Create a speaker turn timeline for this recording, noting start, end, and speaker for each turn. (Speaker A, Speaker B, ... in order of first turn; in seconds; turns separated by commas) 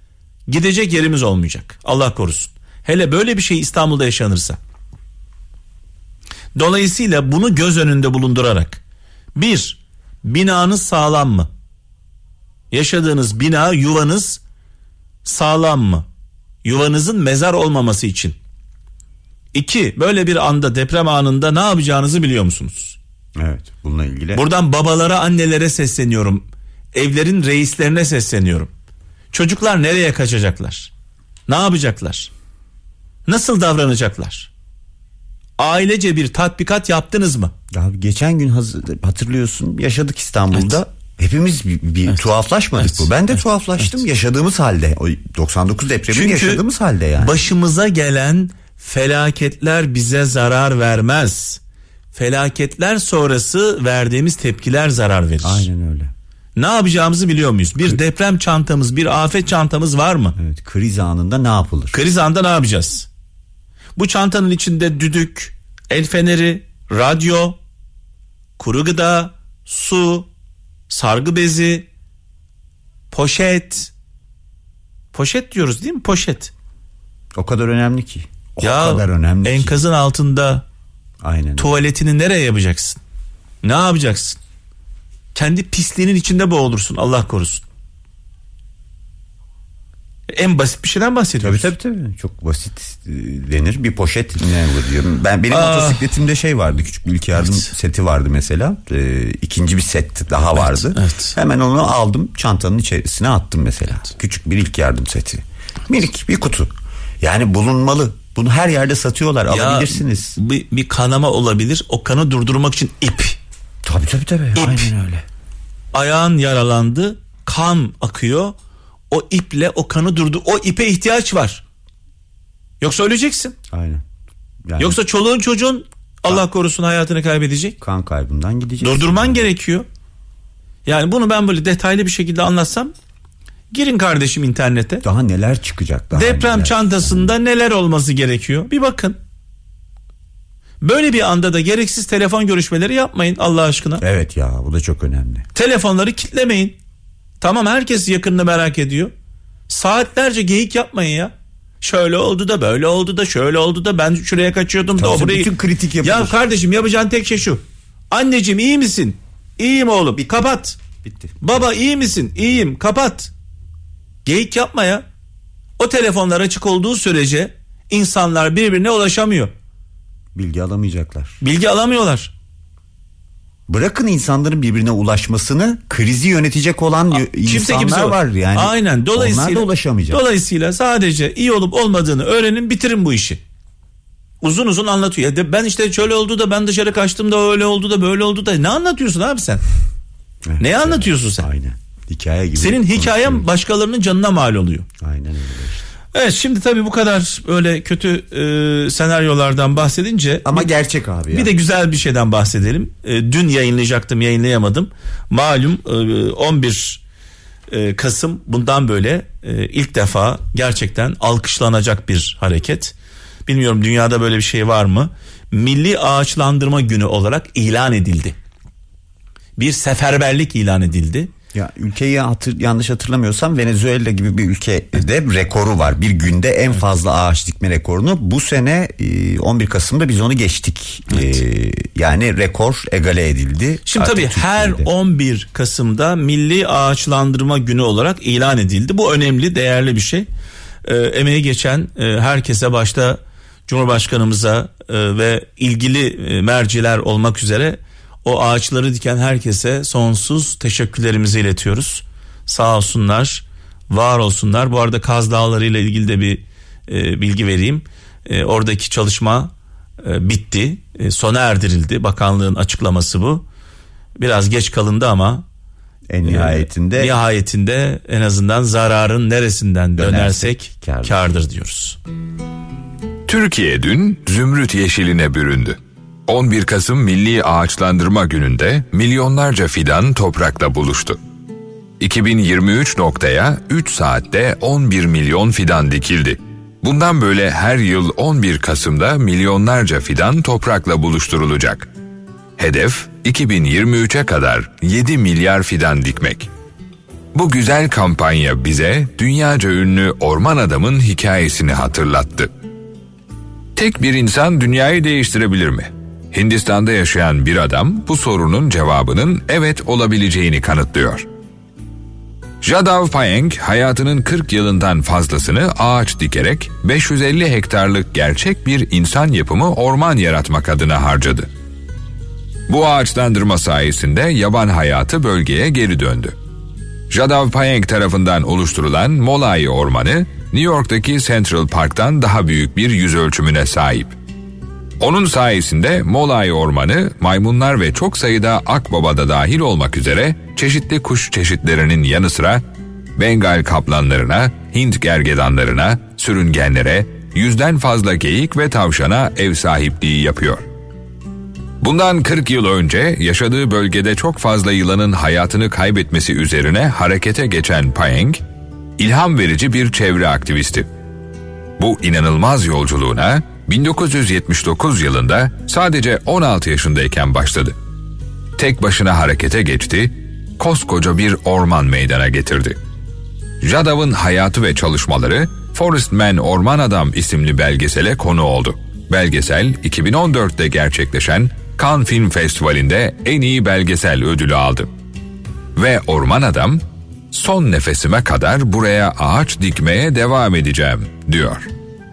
Speaker A: 0.5-4.6, Speaker A: 6.5-8.8, Speaker A: 9.3-11.5, Speaker A: 12.7-14.4, Speaker A: 15.2-16.1, Speaker A: 16.6-18.4, Speaker A: 19.5-23.0, Speaker B: 23.4-24.4, Speaker A: 24.3-28.7, Speaker A: 29.3-30.9, Speaker A: 31.5-32.3, Speaker A: 33.3-34.5, Speaker A: 35.6-37.5, Speaker B: 37.7-47.4, Speaker A: 42.8-43.0, Speaker A: 46.1-46.6, Speaker A: 47.2-51.6, Speaker A: 52.1-55.7, Speaker B: 55.4-56.1, Speaker A: 56.6-60.4, Speaker B: 60.4-62.0, Speaker A: 61.9-63.1, Speaker A: 64.0-67.6, Speaker A: 68.6-70.3, Speaker A: 70.9-71.9, Speaker A: 73.1-73.9, Speaker A: 75.1-76.5, Speaker B: 77.3-79.8, Speaker A: 78.6-80.6, Speaker B: 81.2-81.7, Speaker A: 81.6-83.0, Speaker A: 83.6-84.4, Speaker A: 85.3-87.6, Speaker A: 90.3-91.7, Speaker B: 91.4-110.4, Speaker A: 95.5-96.1, Speaker A: 100.5-101.3, Speaker A: 109.5-113.4, Speaker B: 113.8-115.2, Speaker A: 114.5-114.9, Speaker A: 115.9-118.5, Speaker A: 119.1-121.6, Speaker A: 122.8-123.5, Speaker B: 123.7-124.0, Speaker B: 124.6-124.9, Speaker A: 124.8-127.8, Speaker B: 127.8-129.4, Speaker A: 128.8-129.8, Speaker A: 130.8-132.9, Speaker A: 133.7-135.0, Speaker B: 135.0-137.3, Speaker A: 136.1-139.2, Speaker A: 140.8-144.0, Speaker B: 144.0-145.5, Speaker A: 145.5-146.8, Speaker A: 147.4-149.1, Speaker A: 149.7-155.5, Speaker B: 155.0-156.3, Speaker A: 156.0-160.8, Speaker B: 160.9-161.5, Speaker A: 161.4-163.3, Speaker A: 164.2-165.0, Speaker A: 165.8-169.5, Speaker B: 170.3-171.4, Speaker A: 171.4-172.3, Speaker B: 173.7-180.2, Speaker A: 177.1-183.4, Speaker A: 184.4-189.6, Speaker B: 190.4-193.4, Speaker A: 190.6-191.5, Speaker A: 192.6-194.9, Speaker B: 195.0-195.8, Speaker A: 196.1-200.7, Speaker B: 200.4-201.5, Speaker A: 201.3-207.0, Speaker A: 207.7-212.9, Speaker A: 213.4-218.4, Speaker A: 219.6-221.3, Speaker B: 221.5-234.9, Speaker A: 233.9-240.3, Speaker A: 240.8-263.4, Speaker A: 264.2-265.4, Speaker B: 266.1-267.1, Speaker A: 266.2-272.0, Speaker B: 270.0-271.2, Speaker C: 273.3-281.2, Speaker C: 282.0-291.9, Speaker C: 292.6-296.5, Speaker C: 297.3-302.5, Speaker C: 303.8-311.3, Speaker C: 312.6-321.5, Speaker C: 322.7-326.4, Speaker C: 327.1-334.1, Speaker C: 335.0-342.6, Speaker C: 343.1-350.6, Speaker C: 351.8-358.4, Speaker C: 359.0-360.9, Speaker C: 361.8-367.8, Speaker C: 368.6-372.8, Speaker C: 373.6-384.9, Speaker C: 385.7-391.7